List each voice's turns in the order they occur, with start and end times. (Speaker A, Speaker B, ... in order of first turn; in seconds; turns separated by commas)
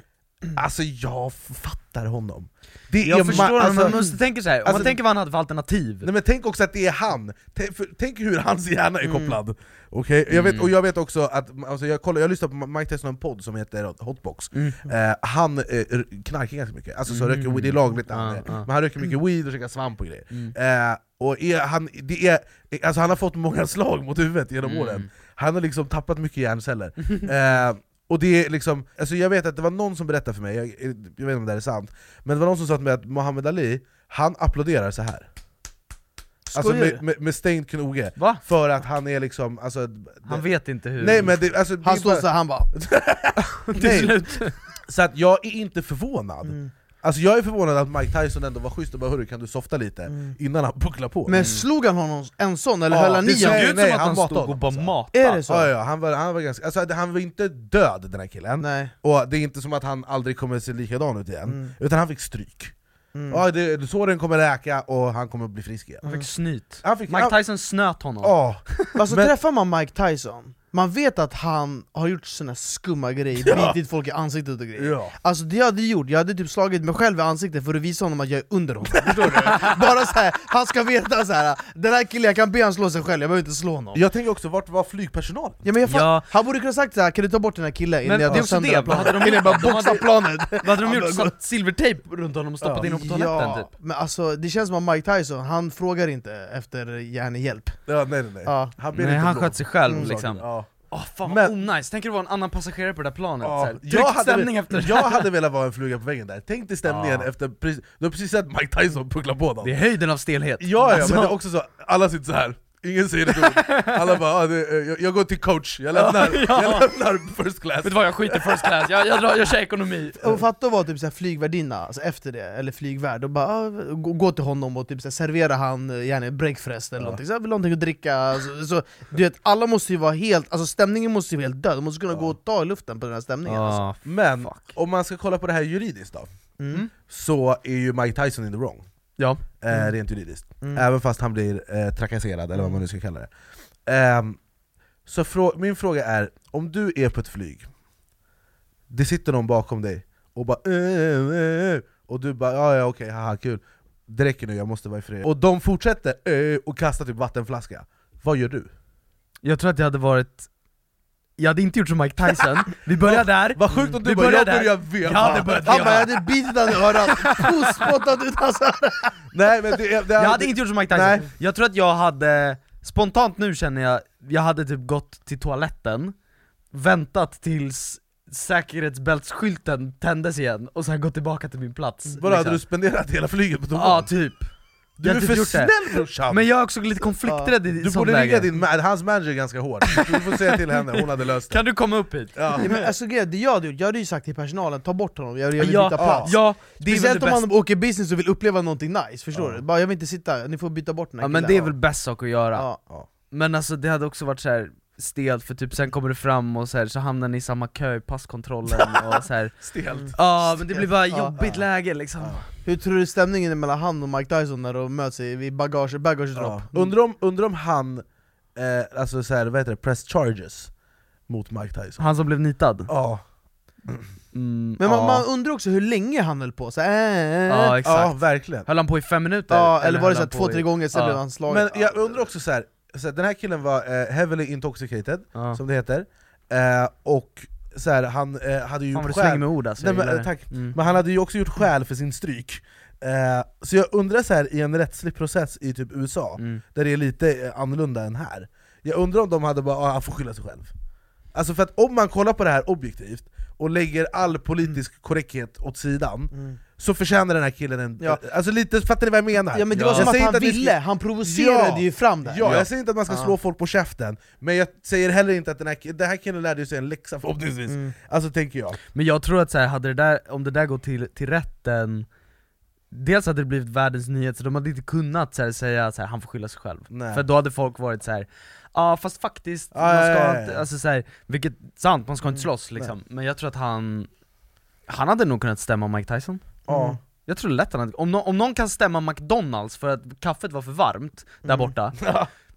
Speaker A: 0.5-4.0, Speaker B: 3.0-6.1, Speaker C: 3.2-4.2, Speaker A: 4.6-4.9, Speaker A: 6.0-35.3, Speaker C: 9.0-9.4, Speaker B: 10.3-10.7, Speaker B: 14.5-14.9, Speaker B: 17.1-18.7, Speaker B: 24.6-25.1, Speaker B: 27.0-27.3, Speaker C: 36.5-37.0, Speaker A: 36.5-40.4, Speaker B: 38.2-38.4, Speaker B: 40.2-41.3, Speaker A: 41.0-51.5, Speaker C: 41.8-42.7, Speaker B: 43.6-44.5, Speaker C: 46.4-46.7, Speaker C: 50.1-50.4, Speaker C: 51.2-53.7, Speaker B: 51.4-51.6, Speaker A: 52.9-54.9, Speaker B: 53.2-55.4, Speaker C: 55.1-55.7, Speaker A: 55.5-62.7, Speaker C: 58.6-58.9, Speaker C: 61.5-61.8, Speaker C: 63.1-63.4, Speaker A: 63.3-66.0, Speaker B: 66.0-68.9, Speaker A: 66.8-67.4, Speaker A: 68.2-69.3, Speaker C: 68.9-84.0, Speaker A: 73.4-73.8, Speaker A: 74.8-75.1, Speaker A: 83.9-85.6, Speaker C: 85.6-91.3, Speaker B: 85.9-86.2, Speaker B: 88.0-93.7, Speaker A: 88.2-89.8, Speaker A: 92.6-92.9, Speaker C: 92.8-97.9, Speaker A: 97.9-100.7, Speaker C: 98.4-98.7, Speaker B: 98.9-105.3, Speaker C: 99.9-100.2, Speaker A: 101.2-101.5, Speaker A: 103.4-109.7, Speaker B: 106.8-107.3, Speaker B: 109.6-111.3, Speaker A: 110.6-118.8, Speaker B: 113.3-114.0, Speaker B: 116.0-116.9, Speaker B: 117.8-120.3, Speaker C: 120.2-133.8, Speaker B: 133.4-134.7, Speaker A: 134.0-136.3, Speaker C: 136.6-136.8, Speaker A: 136.9-138.8, Speaker B: 139.2-139.4, Speaker A: 139.6-143.3, Speaker C: 139.7-139.9, Speaker C: 142.5-142.8, Speaker A: 143.8-144.4, Speaker A: 145.1-147.7, Speaker A: 148.9-158.7, Speaker B: 159.4-160.5, Speaker B: 161.4-166.1, Speaker A: 163.0-166.1, Speaker C: 165.6-169.2, Speaker B: 167.2-167.5, Speaker A: 169.3-171.2, Speaker B: 170.2-176.1, Speaker B: 176.7-182.6, Speaker A: 182.2-184.2, Speaker B: 183.7-188.5, Speaker A: 185.0-186.5, Speaker C: 187.2-187.5, Speaker A: 187.8-191.6, Speaker B: 191.5-192.9, Speaker A: 192.3-192.7, Speaker C: 192.6-201.8, Speaker B: 195.6-197.4, Speaker A: 196.0-196.3, Speaker A: 199.3-199.6, Speaker B: 201.2-202.7, Speaker C: 202.5-202.8, Speaker B: 203.3-212.4, Speaker A: 209.6-210.2, Speaker C: 209.9-211.4, Speaker A: 212.2-212.4, Speaker C: 212.6-216.9, Speaker A: 216.3-220.7, Speaker A: 221.3-222.0, Speaker B: 222.0-222.9, Speaker A: 222.9-223.2, Speaker B: 224.3-225.2, Speaker C: 224.8-227.7, Speaker B: 227.5-231.2, Speaker A: 227.8-228.7, Speaker C: 229.5-232.3, Speaker A: 231.5-250.7, Speaker B: 235.3-235.6, Speaker B: 238.9-240.8, Speaker B: 246.4-246.6, Speaker A: 251.3-268.8, Speaker C: 259.5-263.3, Speaker B: 259.7-260.1, Speaker C: 267.7-267.9, Speaker B: 268.9-272.1, Speaker B: 272.9-284.1, Speaker A: 276.9-277.2, Speaker A: 279.7-280.6, Speaker B: 284.9-286.6, Speaker C: 286.7-287.0, Speaker A: 286.7-287.0, Speaker B: 287.2-292.0, Speaker C: 291.4-291.7, Speaker A: 292.0-292.3